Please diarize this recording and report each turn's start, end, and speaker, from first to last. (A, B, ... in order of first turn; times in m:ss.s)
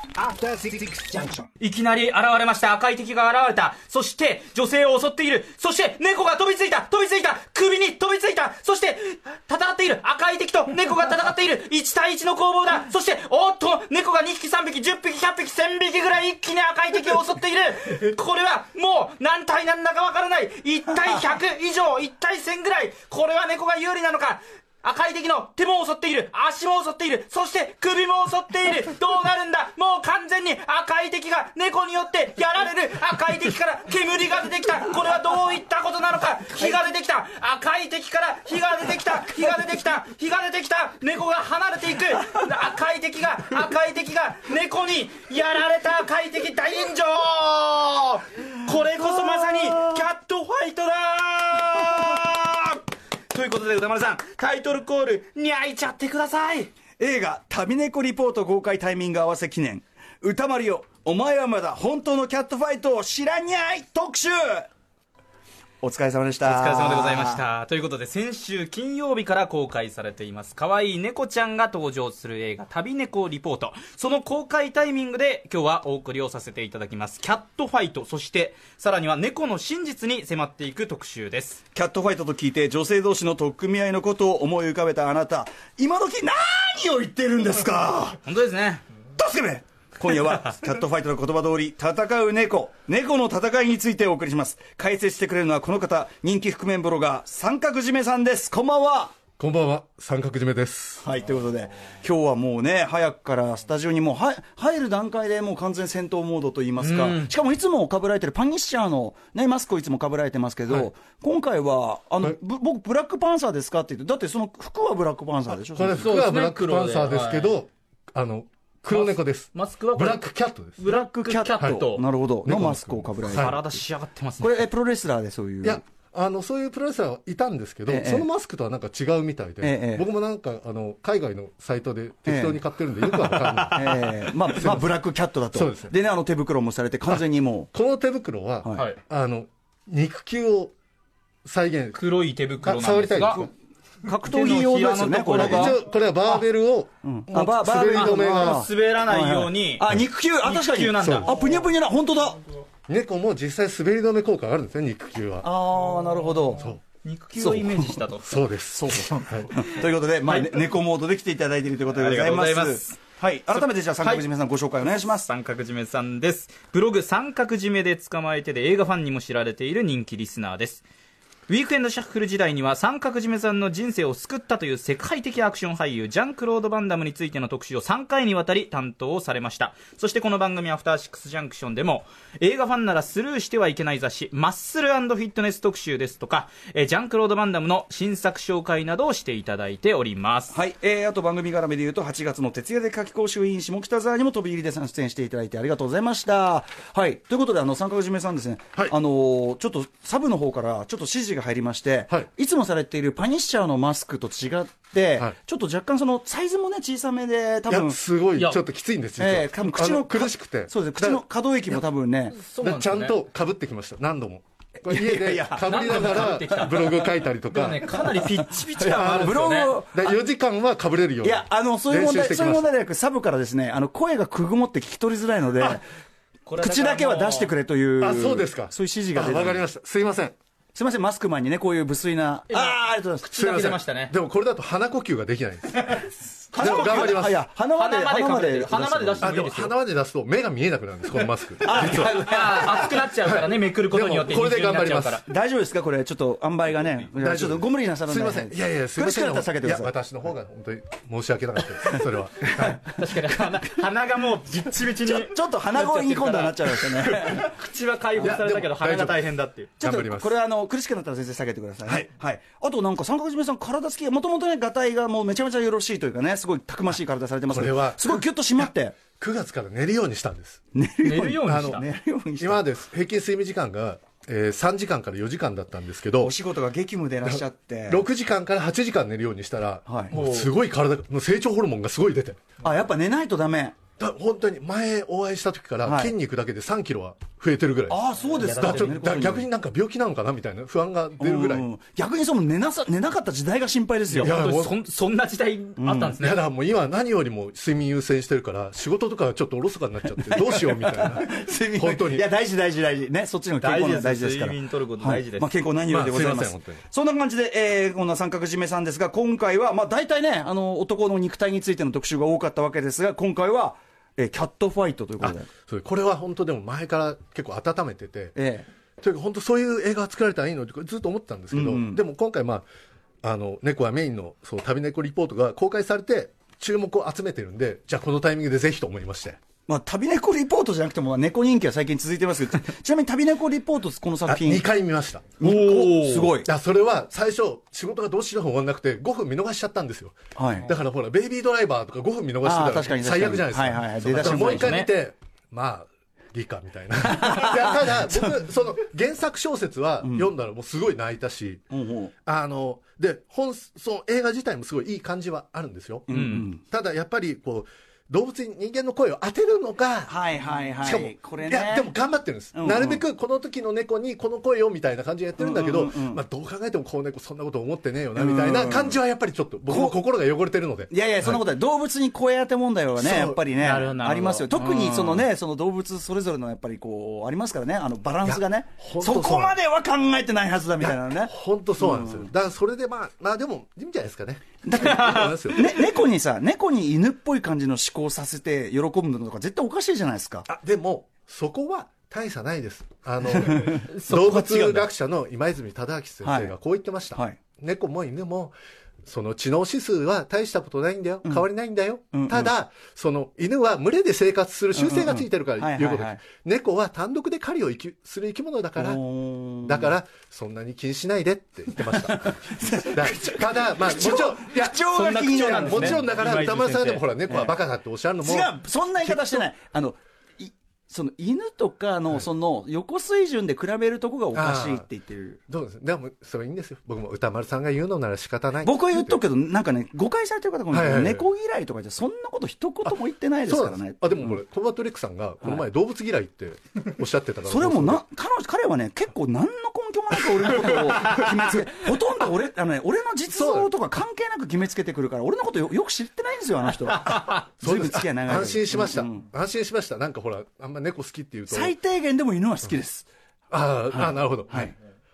0:00.2-0:01.4 A
0:01.6-0:52.8 B
0:49.3-0:50.0 A
0:53.3-0:56.7 B
0:57.0-1:04.7 A
1:05.8-1:07.4 A
1:06.4-1:21.6 B
1:21.7-1:28.2 A
1:28.2-1:28.8 B
1:29.2-1:39.1 A
1:39.4-1:41.1 C
1:41.0-1:56.1 A
1:46.8-1:47.3 B
1:55.6-2:00.8 C
1:56.0-1:57.6 B
1:58.9-2:00.2 B
2:00.8-2:02.1 B
2:00.8-2:03.8 A
2:02.4-2:03.6 C
2:03.2-2:04.7 B
2:04.4-2:05.8 A
2:05.6-2:14.9 C
2:07.9-2:08.3 A
2:09.6-2:10.1 A
2:12.3-2:12.6 A
2:13.2-2:14.1 B
2:13.7-2:17.7 A
2:15.5-2:15.9 C
2:17.1-2:20.7 C
2:18.6-2:18.9 A
2:21.4-2:22.0 C
2:22.0-2:23.4 B
2:22.6-2:23.5 C
2:24.1-2:25.8 A
2:24.2-2:25.8 B
2:25.4-2:28.7 C
2:27.0-2:32.4 A
2:27.7-2:29.9 B
2:30.4-2:31.5 B
2:31.0-2:31.3 C
2:32.9-2:35.5 C
2:35.4-2:36.7 A
2:37.0-2:38.4 B
2:37.4-2:38.0 A
2:38.2-2:39.5 C
2:38.7-2:45.3 A
2:39.6-2:40.6 B
2:42.0-2:43.0 B
2:43.5-2:44.2 B
2:44.9-2:50.8 B
2:51.5-3:10.6 B
3:10.5-3:28.0 A
3:27.7-3:31.8 C
3:29.2-3:32.4 A
3:32.4-3:33.2 B
3:32.6-3:38.0 C
3:34.8-3:36.3 A
3:35.6-3:39.7 B
3:37.9-3:40.2 A
3:38.8-3:42.7 C
3:41.2-3:45.8 A
3:46.5-3:47.5 B
3:46.6-3:49.6 A
3:48.0-3:50.4 C
3:50.8-3:53.3 A
3:52.5-3:54.1 B
3:53.3-3:57.4 C
3:55.9-3:59.7 B
3:56.5-3:59.4 A
3:59.2-4:02.7 C
4:01.6-4:02.9 A
4:01.6-4:05.2 B
4:03.2-4:05.2 C
4:05.3-4:09.9 A
4:07.2-4:12.8 C
4:12.6-4:13.4 A
4:12.6-4:19.7 B
4:15.0-4:17.6 A
4:18.2-4:19.2 C
4:19.8-4:20.3 C
4:19.8-4:29.0 A
4:27.5-4:30.6 C
4:30.7-4:32.6 A
4:31.0-4:31.8 B
4:31.4-4:31.8 C
4:32.4-4:36.3 C
4:36.2-4:38.0 A
4:37.2-4:42.4 C
4:39.9-4:40.1 A
4:40.1-4:40.5 B
4:42.6-4:43.8 A
4:44.0-4:48.0 C
4:45.8-4:46.1 A
4:47.9-4:49.5 A
4:48.3-4:49.0 B
4:48.6-4:51.7 C
4:51.2-4:54.4 A
4:54.1-4:56.4 B
4:54.2-4:54.8 C
4:55.8-4:56.2 A
4:56.2-5:02.2 C
5:00.2-5:15.5 A
5:03.6-5:05.5 B
5:05.9-5:06.8 C
5:15.2-5:18.4 C
5:18.4-5:18.7 A
5:19.0-5:22.7 C
5:21.5-5:22.0 A
5:23.2-5:29.4 C
5:29.7-5:34.6 A
5:34.2-5:35.4 C
5:35.4-5:36.4 B
5:35.4-5:36.5 A
5:36.4-5:51.6 C
5:40.4-5:40.7 A
5:42.4-5:44.7 A
5:44.2-5:44.9 B
5:47.0-5:48.4 A
5:50.0-5:50.3 A
5:51.7-5:52.1 A
5:52.2-6:00.2 C
5:56.1-5:56.6 A
5:56.1-5:56.4 B
6:00.1-6:01.9 A
6:00.8-6:11.4 C
6:02.5-6:03.0 A
6:05.4-6:06.2 A
6:08.2-6:09.0 A
6:09.7-6:10.0 A
6:10.9-6:22.3 A
6:13.0-6:13.4 C
6:13.6-6:15.2 B
6:18.2-6:19.6 C
6:20.8-6:25.8 C
6:24.6-6:30.5 A
6:24.8-6:25.9 B
6:30.5-6:49.0 C
6:33.2-6:33.9 A
6:33.9-6:34.9 B
6:36.2-6:36.6 A
6:42.1-6:42.5 A
6:44.7-6:46.2 A
6:48.8-6:49.9 A
6:49.6-6:59.5 C
6:51.8-6:56.1 A
6:54.8-6:57.0 B
6:57.3-6:57.5 A
6:58.2-7:05.4 A
7:04.3-7:04.9 C
7:05.5-7:09.2 C
7:08.6-7:14.4 A
7:10.7-7:11.2 C
7:12.8-7:18.0 C
7:17.4-7:29.2 A
7:20.4-7:21.4 C
7:23.3-7:23.7 C
7:27.0-7:31.8 C
7:31.5-7:33.1 A
7:33.5-7:34.7 C
7:33.9-7:34.7 A